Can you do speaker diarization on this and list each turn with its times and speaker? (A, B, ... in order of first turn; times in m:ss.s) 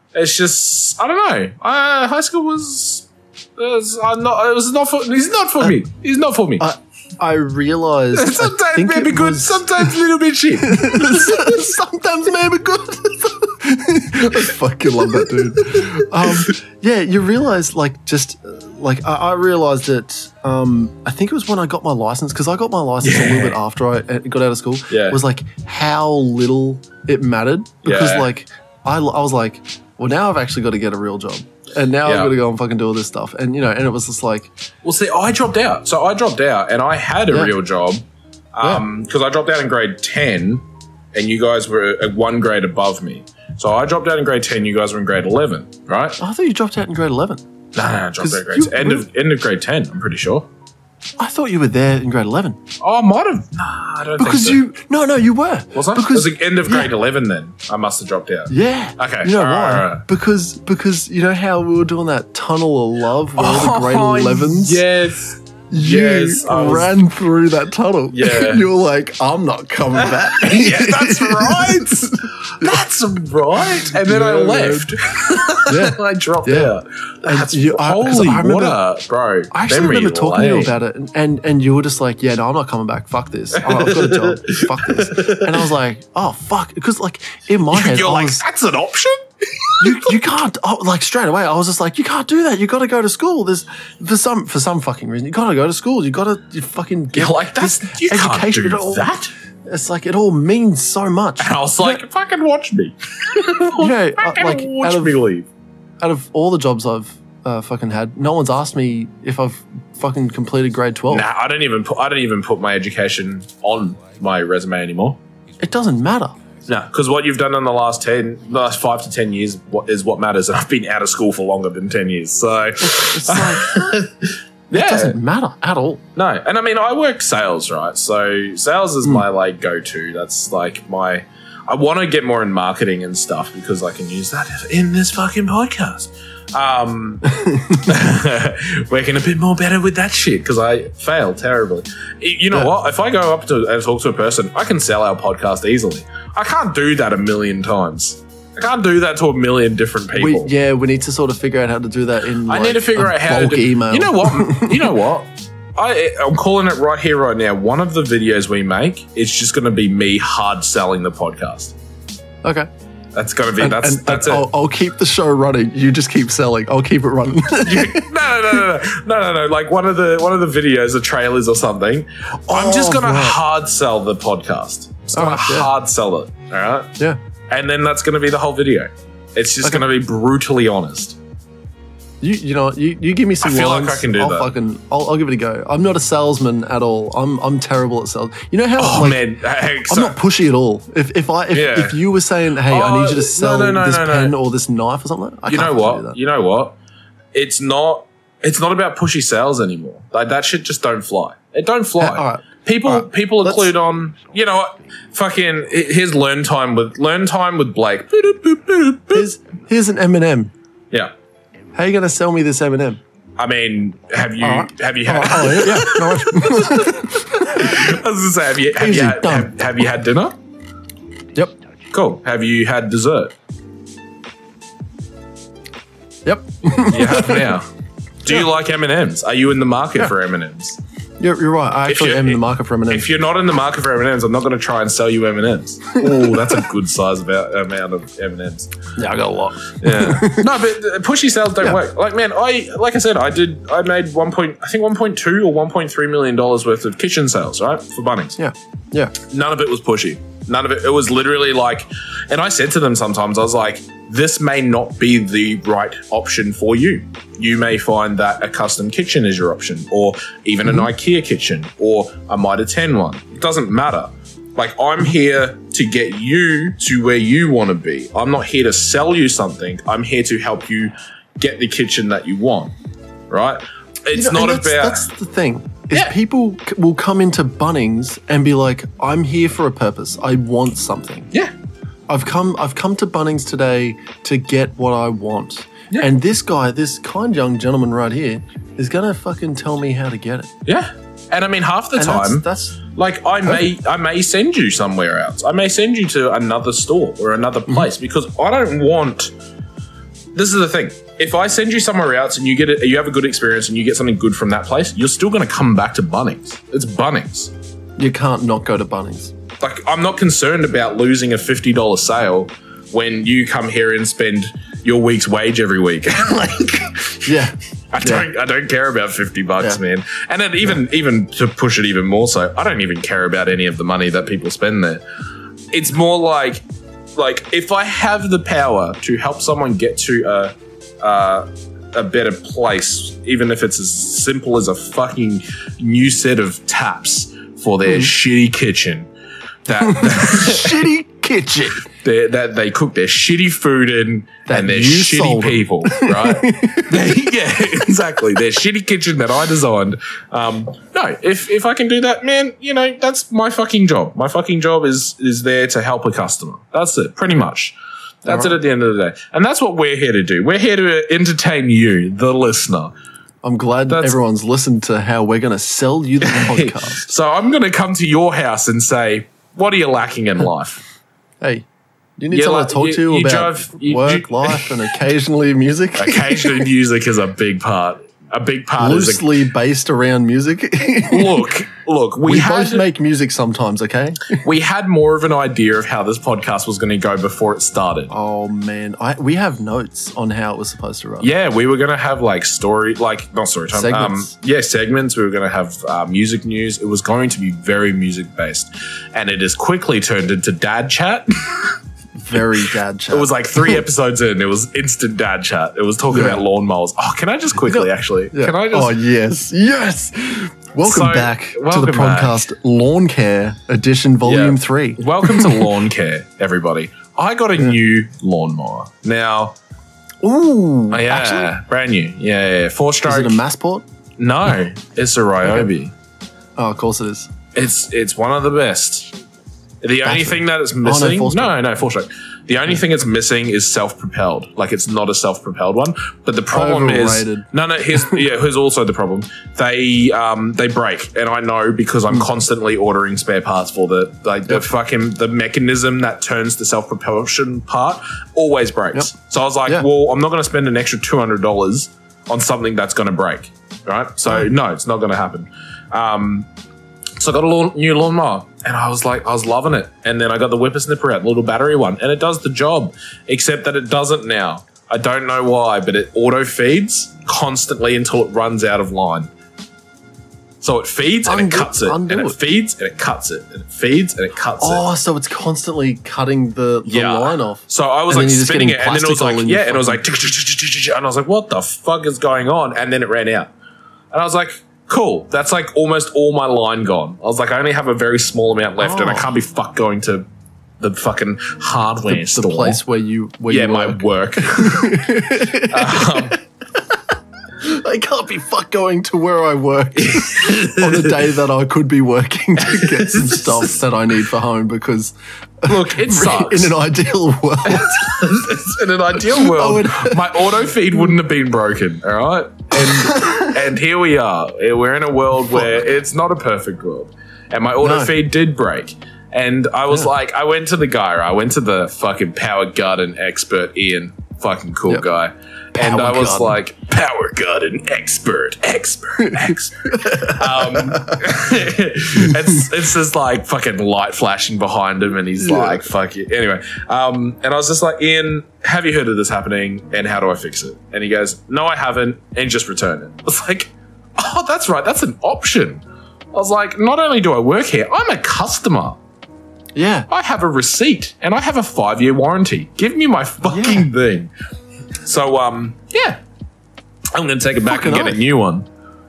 0:00.1-0:06.6 A
0:06.6-0:09.9 B
0:08.1-0:11.7 A
0:10.6-0:34.5 B
0:15.2-0:16.5 A
0:23.0-0:23.6 A
0:24.9-0:25.2 A
0:27.8-0:28.3 A
0:32.0-0:32.3 A
0:34.8-0:46.2 A
0:46.2-0:47.4 B
0:47.7-0:50.5 A
0:48.2-0:49.1 B
0:51.2-0:52.6 B
0:52.8-0:54.6 A
0:54.2-0:56.9 B
0:55.7-1:00.0 A
0:58.5-1:04.8 B
1:03.4-1:06.9 A
1:05.7-1:12.8 B
1:08.1-1:08.6 A
1:10.0-1:20.7 A
1:13.6-1:14.9 B
1:15.6-1:16.7 B
1:17.2-1:18.8 B
1:19.5-1:28.4 B
1:23.5-1:25.7 A
1:27.7-1:30.2 A
1:29.8-1:39.1 B
1:37.1-1:39.3 A
1:39.6-1:42.0 B
1:41.4-1:45.5 A
1:43.8-1:45.2 B
1:46.0-1:51.2 B
1:51.1-1:55.2 A
1:55.6-1:56.4 B
1:56.7-2:05.2 A
2:02.8-2:03.7 B
2:04.7-2:06.0 B
2:06.2-2:30.5 A
2:17.3-2:17.9 B
2:30.1-2:35.0 B
2:32.4-2:41.7 A
2:43.1-2:44.5 A
2:43.6-2:48.1 B
2:47.6-2:56.9 A
2:52.4-2:53.4 B
2:55.1-2:55.7 B
2:57.5-3:01.2 A
3:02.2-3:09.3 B
3:03.4-3:04.5 A
3:08.8-3:10.2 A
3:09.8-3:16.2 B
3:11.5-3:12.0 A
3:12.7-3:14.4 A
3:15.5-3:16.8 A
3:17.3-3:29.2 A
3:22.0-3:23.7 B
3:29.1-3:30.5 B
3:31.7-3:33.0 B
3:33.4-3:40.4 A
3:34.4-3:37.9 B
3:38.8-3:39.5 B
3:41.9-3:43.3 A
3:46.2-3:47.6 B
3:46.8-3:47.7 A
3:48.2-3:50.8 A
3:51.2-3:53.1 B
3:51.9-3:58.7 A
3:56.0-3:56.4 B
3:59.0-4:00.5 B
3:59.8-4:08.4 A
4:08.4-4:09.1 B
4:09.2-4:32.7 A
4:33.3-4:35.1 A
4:34.1-4:41.3 B
4:42.1-4:50.5 B
4:50.6-4:59.3 A
4:52.0-4:52.8 B
5:00.3-5:07.5 A
5:08.0-5:09.3 B
5:09.6-5:17.4 A
5:17.2-5:18.3 B
5:17.9-5:25.0 A
5:25.7-5:39.1 A
5:39.6-5:40.9 A
5:39.8-5:41.9 B
5:42.0-6:02.9 A
5:44.5-5:47.2 B
5:58.3-5:58.6 B
6:03.4-6:07.0 B
6:03.9-6:04.2 A
6:06.2-6:10.8 A
6:11.4-6:11.6 B
6:12.2-6:16.7 B
6:12.3-6:14.8 A
6:15.9-6:19.3 A
6:18.8-6:21.5 B
6:21.1-6:22.9 A
6:22.2-6:24.4 B
6:24.3-6:28.1 A
6:28.1-6:31.3 B
6:31.2-6:41.8 A
6:33.7-6:34.3 B
6:42.2-6:43.8 B
6:43.1-6:49.0 A
6:46.1-6:46.4 B
6:47.6-6:55.7 B
6:50.8-6:52.4 A
6:54.2-6:59.6 A
7:00.2-7:01.5 B
7:00.9-7:03.4 A
7:03.0-7:03.8 B
7:04.2-7:05.9 A
7:06.6-7:07.3 B
7:07.5-7:09.1 A
7:09.8-7:36.5 A
7:10.0-7:11.6 B
7:16.5-7:17.5 B
7:37.2-7:49.3 A
7:50.6-7:54.8 A
7:51.2-7:52.4 B
7:54.6-8:00.0 B
7:56.8-8:03.5 A
8:04.1-8:10.2 A
8:08.8-8:09.3 B
8:10.8-8:12.8 A
8:12.0-8:16.4 B
8:13.5-8:16.4 A
8:17.6-8:28.4 B
8:20.0-8:21.2 A
8:22.6-8:23.8 A
8:25.6-8:26.8 A
8:27.6-9:09.0 A
8:29.1-8:31.1 B
8:32.8-8:33.5 B
8:37.8-8:38.1 B
8:45.8-8:46.6 B
8:49.2-8:51.2 B
8:55.4-8:55.8 B
9:09.7-9:10.1 B
9:10.1-9:14.3 A
9:13.4-9:13.9 B
9:15.0-9:16.2 A
9:17.1-9:18.7 A
9:17.6-9:18.2 B